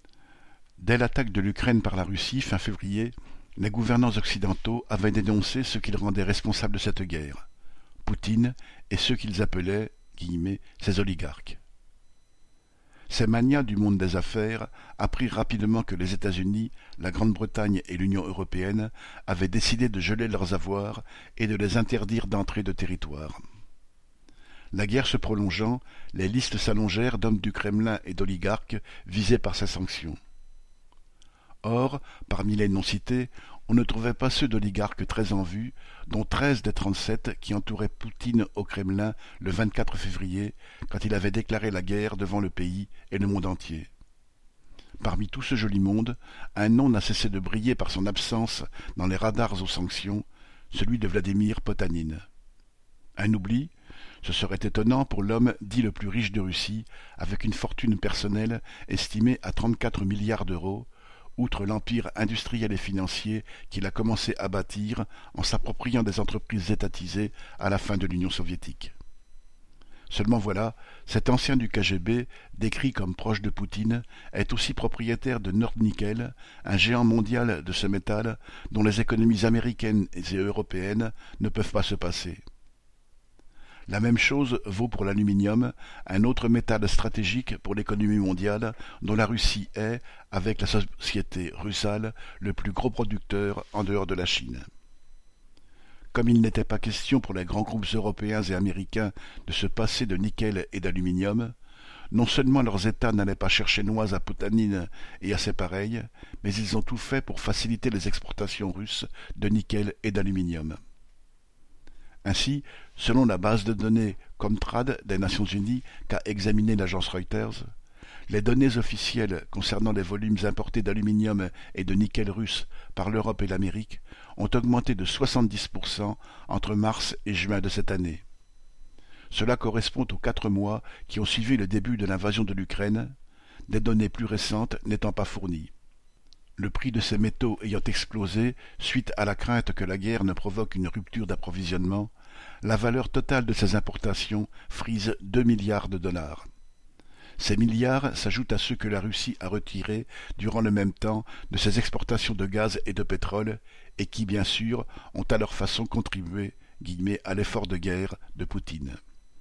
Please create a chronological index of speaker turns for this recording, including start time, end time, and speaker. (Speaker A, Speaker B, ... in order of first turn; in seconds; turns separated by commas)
Speaker A: 0.8-7.5, Speaker A: 8.1-11.6, Speaker A: 13.1-23.4, Speaker A: 24.7-30.2, Speaker A: 31.6-43.9, Speaker A: 45.0-52.2, Speaker A: 53.2-53.7, Speaker A: 54.2-68.9, Speaker A: 70.1-82.4, Speaker A: 83.9-94.7, Speaker A: 96.1-101.5, Speaker A: 102.1-110.8, Speaker A: 112.2-117.7, Speaker A: 118.3-128.2, Speaker A: 129.3-133.1, Speaker A: 133.7-135.7, Speaker A: 136.6-142.1, Speaker A: 142.6-146.5, Speaker A: 147.4-159.0